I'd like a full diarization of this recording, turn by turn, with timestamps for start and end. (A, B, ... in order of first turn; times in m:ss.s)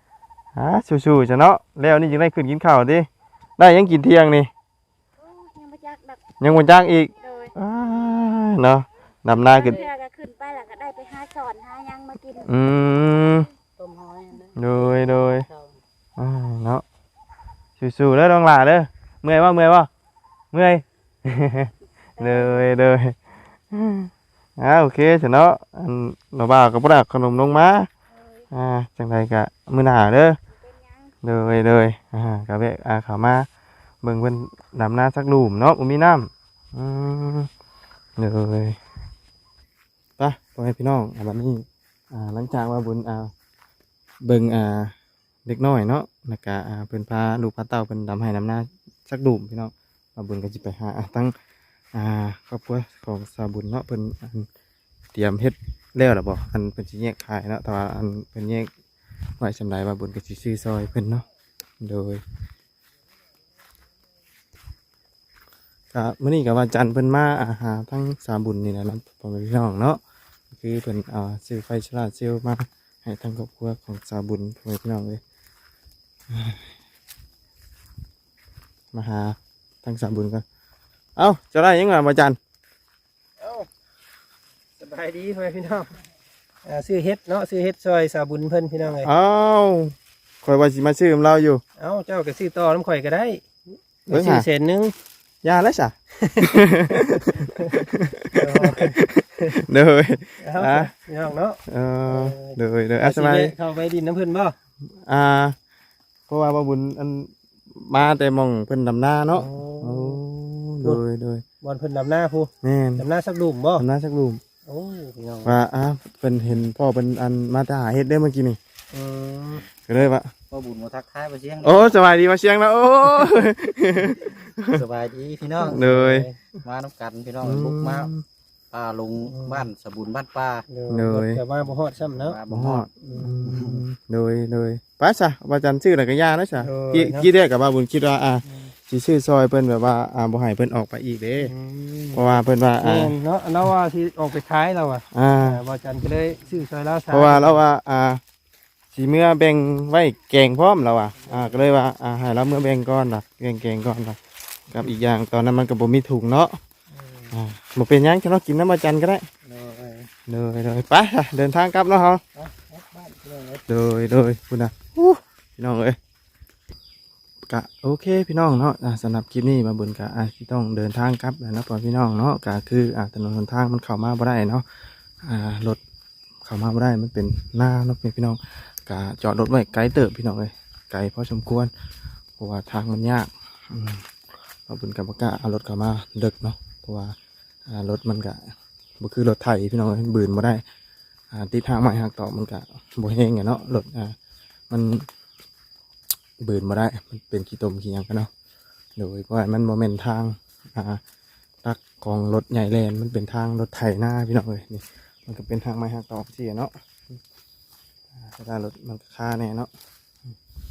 0:00.6-0:04.5 A
0:05.2-0:07.6 B
0:06.4-0:09.8 A
0:09.6-0:12.5 B
0:09.6-0:09.9 C
0:12.4-0:13.5 A
0:13.8-0:15.8 C
0:14.6-0:15.5 A
0:16.2-0:16.8 A
0:17.8-0:19.9 A
0:20.5-0:23.2 A
0:22.2-0:22.7 B
0:23.7-0:27.9 A
0:28.1-0:28.5 B
0:28.5-0:30.4 A
0:30.6-0:31.1 B
0:31.2-0:33.5 A
0:34.0-0:37.5 A
0:38.2-0:38.8 A
0:40.2-0:43.3 A
0:44.2-0:45.0 A
0:45.5-0:51.3 A
0:51.9-0:54.5 A
0:55.1-0:58.7 A
0:59.4-1:01.3 A
1:01.8-1:02.2 A
1:05.9-1:10.0 A
1:10.5-1:15.2 A
1:16.3-1:16.7 A
1:18.9-1:20.4 A
1:21.2-1:22.4 A
1:23.4-1:23.7 D
1:24.8-1:26.0 D
1:26.6-1:29.1 D
1:28.8-1:31.6 A
1:31.8-1:33.4 D
1:34.1-1:34.5 A
1:34.1-1:34.9 D
1:35.4-1:40.9 A
1:36.2-1:39.6 D
1:40.4-1:44.6 D
1:41.7-1:43.5 A
1:45.1-1:45.6 A
1:46.3-1:51.4 A
1:49.3-1:50.2 D
1:51.6-1:53.8 D
1:52.6-1:53.1 A
1:53.8-1:54.4 A
1:54.6-1:55.6 D
1:55.4-1:58.6 A
1:58.9-1:59.6 D
1:59.8-2:00.3 A
2:00.5-2:02.0 E
2:01.6-2:04.8 A
2:04.7-2:08.1 E
2:05.6-2:06.3 D
2:05.6-2:06.3 A
2:07.4-2:08.2 A
2:08.7-2:10.6 E
2:09.3-2:09.6 D
2:10.7-2:12.4 D
2:10.9-2:11.4 A
2:12.0-2:12.9 E
2:12.5-2:21.5 A
2:13.0-2:13.5 D
2:16.6-2:17.3 D
2:21.4-2:27.6 D
2:22.1-2:23.7 A
2:25.1-2:25.6 A
2:27.1-2:28.2 A
2:28.9-2:34.2 A
2:34.7-2:36.6 A
2:36.9-2:37.4 D
2:37.3-2:39.3 A
2:39.5-2:40.0 E
2:39.5-2:39.9 D
2:40.3-2:42.2 A
2:42.4-2:43.6 D
2:43.7-2:46.0 A
2:47.5-2:54.6 A
2:55.2-2:55.8 A
2:56.4-3:01.7 A
3:02.4-3:04.1 A
3:04.7-3:07.1 A
3:07.7-3:08.4 A
3:09.0-3:10.6 A
3:11.3-3:14.1 A
3:14.7-3:15.1 A
3:16.4-3:18.3 A
3:19.0-3:21.0 A
3:21.6-3:27.2 A
3:28.1-3:29.7 A